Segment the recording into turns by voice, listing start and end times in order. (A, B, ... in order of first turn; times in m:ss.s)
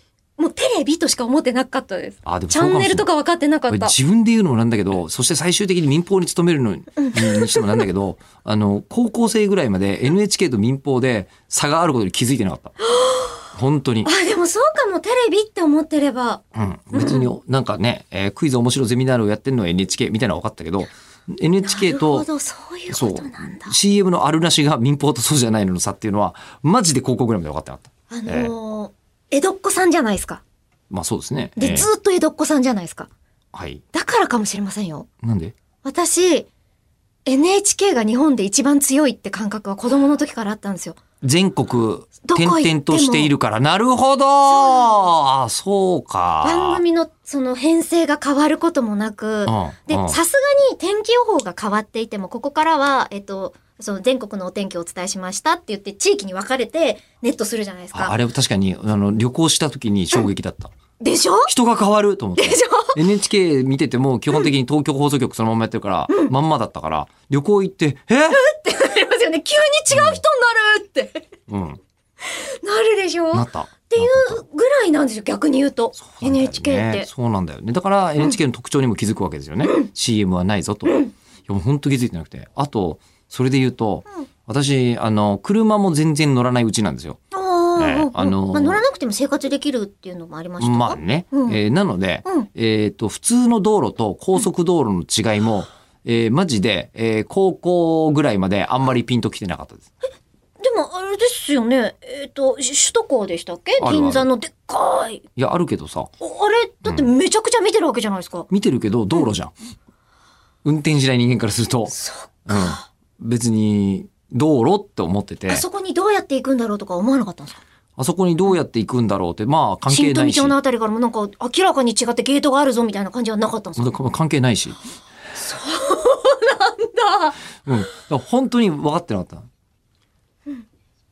0:00.4-0:03.9 A
0:02.2-0:03.1 B
0:03.7-0:12.7 B
0:07.0-0:07.9 A
0:12.8-0:13.4 A
0:13.5-0:14.1 B
0:14.0-0:16.4 A
0:16.5-0:22.3 B
0:16.9-0:17.3 A
0:21.6-0:23.8 A
0:22.9-0:28.5 B
0:28.1-0:30.4 A
0:30.9-0:31.9 B
0:31.6-0:33.1 A
0:33.5-0:33.8 B
0:33.9-0:35.1 A
0:35.2-0:35.5 B
0:35.8-0:36.5 A
0:37.2-0:41.0 A
0:41.2-0:46.8 B
0:42.2-0:43.3 A
0:44.4-0:45.1 A
0:46.4-0:58.1 A
0:49.4-0:50.2 B
0:57.9-1:00.7 B
1:01.0-1:01.5 A
1:01.5-1:08.4 B
1:02.4-1:03.0 A
1:08.3-1:11.3 A
1:09.9-1:10.2 B
1:11.5-1:11.8 B
1:12.2-1:17.1 A
1:13.3-1:14.4 B
1:15.9-1:27.2 B
1:20.8-1:21.1 A
1:27.3-1:31.6 A
1:27.8-1:28.8 B
1:30.6-1:39.8 B
1:40.6-1:45.2 A
1:43.8-1:44.3 B
1:45.4-1:46.1 B
1:46.2-1:48.5 A
1:48.5-1:49.5 B
1:50.6-1:52.0 B
1:51.9-1:52.8 A
1:52.5-1:55.6 B
1:55.5-1:57.6 A
1:58.0-2:00.5 B
1:59.9-2:03.9 A
2:03.8-2:04.8 B
2:05.3-2:07.4 A
2:07.6-2:09.4 B